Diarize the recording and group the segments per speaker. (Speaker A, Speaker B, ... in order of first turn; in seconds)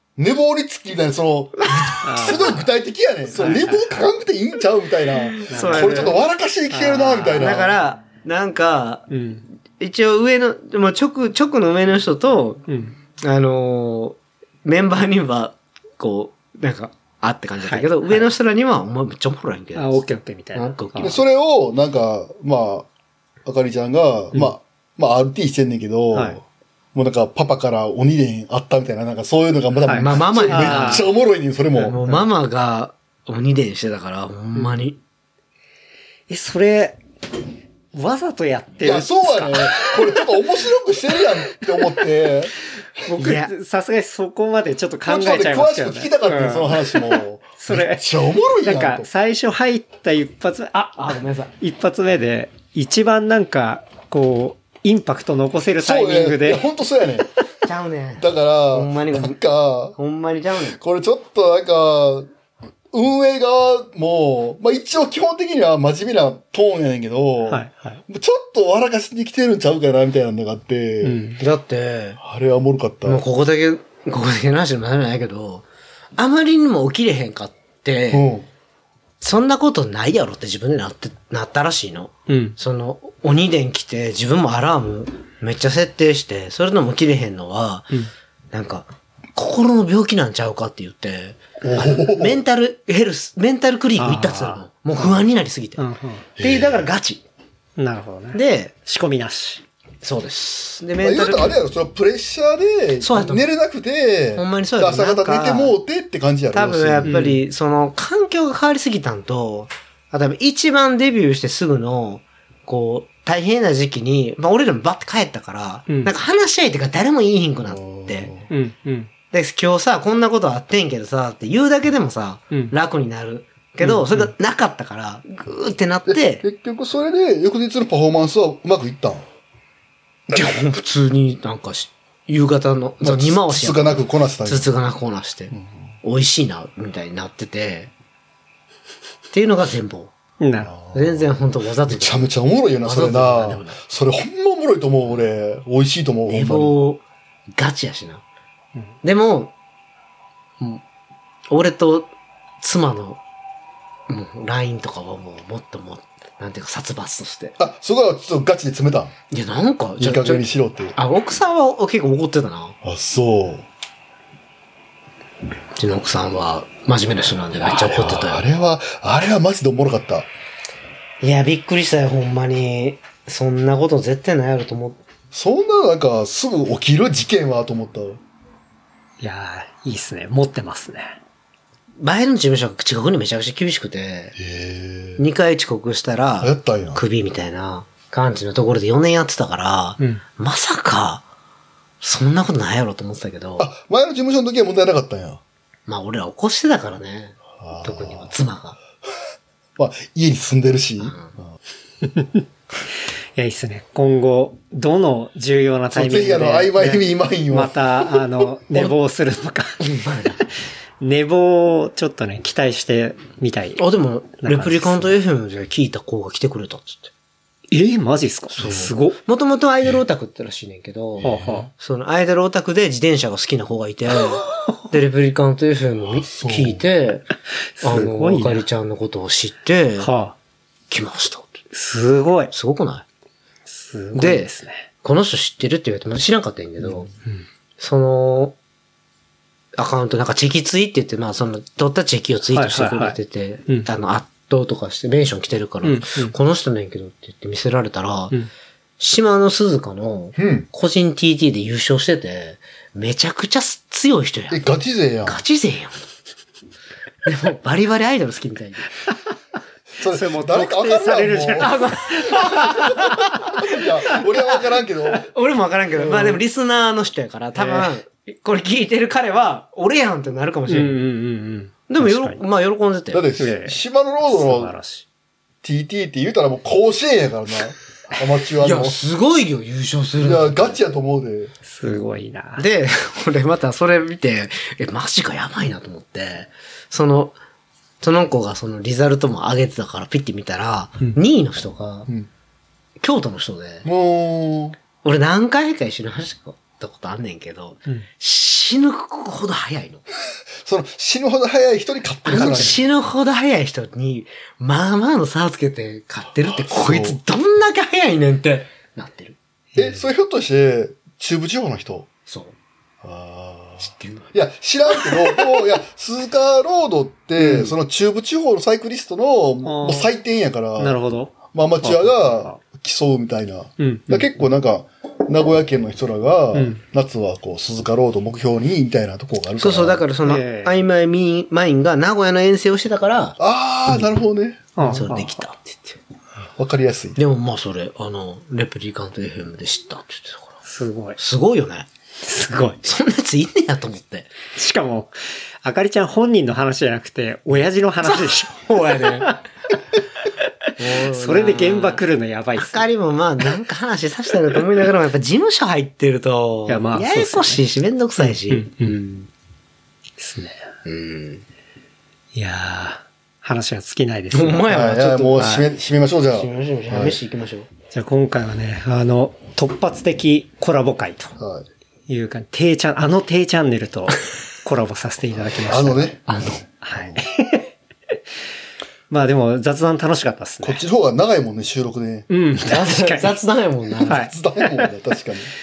Speaker A: 0.2-7.8, 21.0-22.9, 23.4-26.4, 26.9-32.0, 38.8-42.5, 45.0-49.1, 55.8-57.2, 58.2-60.0, 60.7-62.3, 62.9-71.2, 72.2-73.2, 78.1-78.4, 91.6-92.4, 96.4-96.9, 101.0-107.1, 117.7-118.5, 126.1-129.2, 133.0-134.7, 140.7-146.7, 157.6-159.1, 160.0-160.9, 162.8-163.7, 167.7-170.3, 175.3-178.2, 184.3-185.2, 186.4-187.0, 193.6-195.4, 197.5-198.3, 199.8-201.2, 205.9-208.2, 218.6-218.9, 221.2-221.7, 226.3-226.8, 250.4-250.7, 254.5-255.4, 260.0-265.3, 266.0-266.4, 273.1-274.7, 275.6-279.0, 280.2-281.5, 293.8-294.8, 300.6-302.8, 306.3-307.2, 309.8-312.1, 313.0-330.0, 333.4-334.8, 336.6-337.2, 364.7-367.2, 371.4-371.7, 375.7-376.2, 380.6-382.3, 383.9-385.5
Speaker B: 1.7-2.0, 5.3-6.2, 7.3-9.1, 9.8-12.7, 13.2-20.0, 20.5-21.2, 29.9-31.1, 31.9-35.0, 43.0-43.5, 50.9-51.5, 57.6-59.4, 59.9-60.8, 71.4-72.2, 73.0-75.6, 76.2-78.3, 79.2-87.9, 88.5-95.8, 96.4-97.2, 98.3-98.7, 100.0-101.6, 103.0-103.5, 104.3-105.8, 106.5-118.3, 119.3-126.4, 130.3-137.9, 139.3-140.1, 140.9-142.3, 142.8-143.8, 146.3-147.0, 147.6-148.2, 149.0-149.5, 151.5-152.1, 152.6-153.2, 154.1-157.5, 159.3-162.8, 165.8-168.4, 171.2-175.0, 182.0-184.3, 185.2-191.2, 192.0-193.7, 195.9-198.8, 201.0-201.3, 209.8-210.4, 213.8-217.1, 218.6-227.3, 227.8-230.1, 230.9-231.6, 232.5-233.0, 234.1-234.5, 235.0-237.1, 237.8-238.6, 239.8-248.4, 249.0-254.6, 255.2-256.0, 257.2-258.9, 261.6-271.0, 271.9-273.3, 278.6-280.8, 282.6-287.4, 288.0-292.1, 293.0-293.9, 295.0-300.0, 302.3-309.4, 312.3-312.5, 313.8-314.2, 315.0-315.5, 329.6-333.4, 334.8-336.0, 337.1-340.5, 341.2-341.9, 342.8-344.3, 348.0-349.4, 350.8-352.0, 352.6-359.3, 360.9-361.4, 364.3-365.7, 366.3-367.7, 376.3-376.6, 382.6-384.3
Speaker C: 2.0-2.6, 3.4-3.9, 5.5-6.2, 6.7-7.5, 9.1-9.4, 12.7-12.9, 17.6-18.3, 19.8-21.2, 29.8-31.1, 31.8-32.2, 34.5-34.9, 36.3-37.0, 37.9-40.2, 43.1-56.6, 67.5-68.0, 71.0-71.4, 82.3-82.5, 94.0-94.6, 95.8-96.2, 97.8-99.6, 107.0-107.4, 118.5-119.1, 123.8-124.3, 140.4-140.7, 179.2-181.2, 202.0-202.4, 203.3-209.8, 211.0-213.8, 214.4-215.1, 217.7-219.2, 221.2-221.7, 227.8-228.6, 230.0-230.3, 231.7-232.5, 233.7-234.9, 242.5-243.2, 245.8-246.3, 260.0-263.6, 267.5-267.9, 270.7-272.4, 273.4-275.0, 281.6-282.6, 302.3-302.7, 309.7-310.0, 319.6-320.1, 320.8-322.6, 323.8-324.3, 326.5-326.8, 330.2-330.8, 334.8-335.4, 340.6-341.2, 342.2-342.8, 344.5-345.1, 345.6-348.7, 350.4-352.8, 356.7-357.6, 358.2-359.0, 360.2-360.7, 362.3-364.7, 367.9-371.3, 372.1-376.1, 376.8-377.7, 379.1-380.8, 382.3-383.4, 384.1-384.9